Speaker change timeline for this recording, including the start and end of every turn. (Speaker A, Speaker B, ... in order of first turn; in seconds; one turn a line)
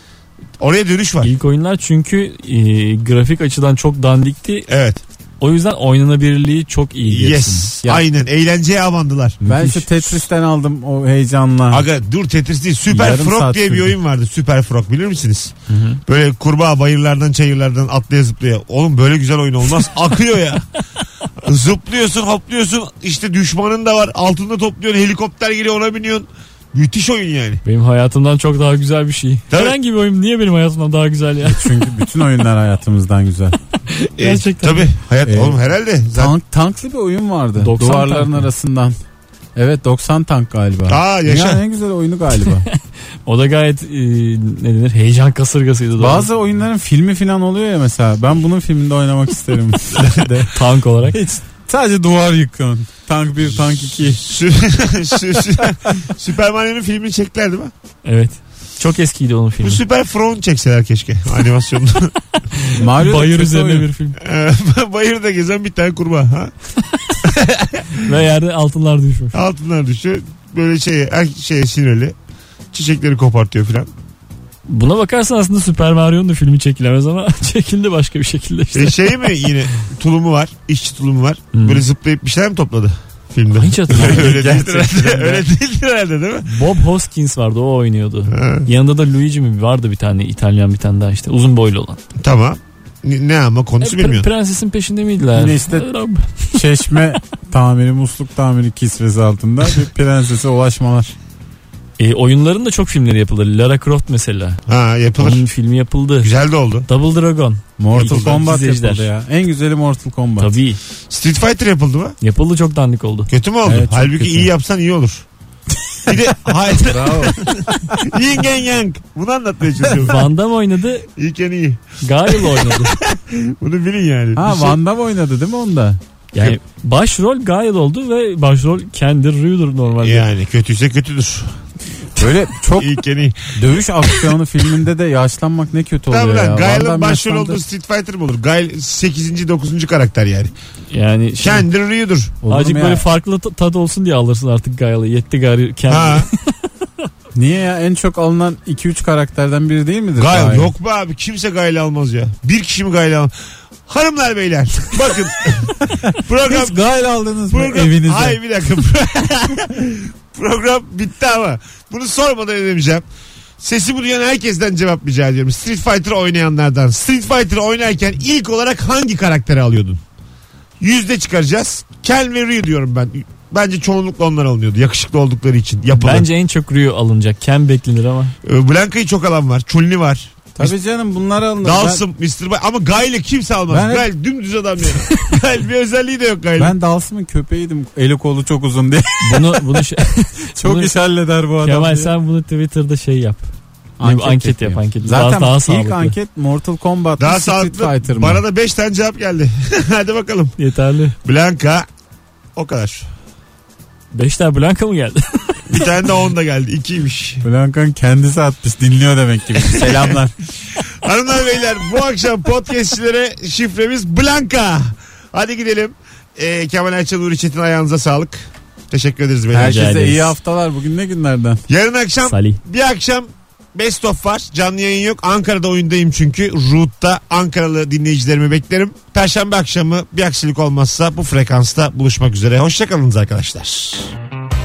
Speaker A: 0.6-1.3
Speaker B: 1.2-4.7
Speaker A: 4.7-5.0
Speaker B: 5.4-7.7
Speaker A: 7.1-9.4
Speaker C: 9.4-11.8
Speaker B: 9.5-9.9
Speaker A: 11.7-20.6
Speaker C: 12.9-14.0
Speaker B: 15.7-16.0
Speaker A: 21.4-27.6
Speaker B: 27.6-31.7
Speaker A: 29.5-29.8
Speaker C: 31.4-33.6
Speaker B: 33.9-34.9
Speaker A: 34.2-36.4
Speaker C: 35.2-35.6
Speaker C: 36.1-39.0
Speaker B: 37.6-38.5
Speaker C: 39.6-42.7
Speaker A: 40.9-41.6
Speaker B: 42.7-46.3
Speaker C: 46.0-50.5
Speaker A: 50.0-50.3
Speaker B: 50.5-51.2
Speaker C: 51.1-54.2
Speaker A: 54.2-57.7
Speaker B: 58.0-59.8
Speaker A: 59.6-62.1
Speaker B: 62.6-64.2
Speaker C: 62.7-63.9
Speaker A: 64.2-66.5
Speaker A: 67.2-67.9
Speaker B: 68.0-69.4
Speaker A: 69.3-72.2
Speaker A: 72.7-73.9
Speaker B: 74.7-79.2
Speaker A: 78.7-86.5
Speaker B: 81.5-81.8
Speaker B: 83.5-84.4
Speaker C: 83.9-85.5
Speaker B: 86.5-92.0
Speaker A: 88.3-88.7
Speaker A: 92.2-94.3
Speaker B: 93.8-96.5
Speaker C: 95.3-95.9
Speaker C: 96.5-101.2
Speaker B: 102.0-104.6
Speaker A: 104.7-105.4
Speaker B: 105.2-106.3
Speaker A: 106.2-106.9
Speaker B: 106.9-109.1
Speaker C: 107.8-110.5
Speaker B: 110.4-110.8
Speaker A: 111.1-112.2
Speaker B: 112.2-113.3
Speaker A: 113.3-115.2
Speaker C: 113.7-114.5
Speaker A: 116.1-120.2
Speaker C: 116.6-117.5
Speaker B: 119.9-121.1
Speaker A: 121.2-124.8
Speaker B: 122.0-123.0
Speaker C: 124.4-126.0
Speaker B: 126.3-130.3
Speaker A: 130.0-131.6
Speaker C: 132.2-133.0
Speaker A: 132.8-133.5
Speaker C: 133.5-137.6
Speaker A: 136.1-140.5
Speaker B: 140.9-141.7
Speaker A: 141.4-142.4
Speaker C: 142.4-143.1
Speaker B: 142.5-146.4
Speaker A: 145.9-146.3
Speaker C: 147.3-150.7
Speaker A: 150.2-153.3
Speaker A: 153.9-156.8
Speaker C: 156.1-158.4
Speaker A: 157.5-163.1
Speaker A: 163.6-170.0
Speaker A: 170.8-176.3
Speaker B: 175.9-178.3
Speaker A: 178.4-180.7
Speaker C: 180.6-182.0
Speaker A: 181.6-186.8
Speaker C: 183.7-184.1
Speaker C: 186.6-189.8
Speaker B: 189.2-190.9
Speaker C: 190.6-192.1
Speaker B: 191.6-193.4
Speaker C: 194.0-198.4
Speaker B: 194.0-196.2
Speaker A: 197.2-200.6
Speaker B: 200.6-201.2
Speaker A: 201.2-201.9
Speaker A: 202.6-203.1
Speaker B: 204.1-205.9
Speaker A: 205.7-207.4
Speaker C: 207.4-210.3
Speaker A: 209.6-210.2
Speaker A: 210.8-219.9
Speaker C: 219.5-221.6
Speaker B: 219.6-220.4
Speaker A: 221.7-234.1
Speaker B: 222.2-222.6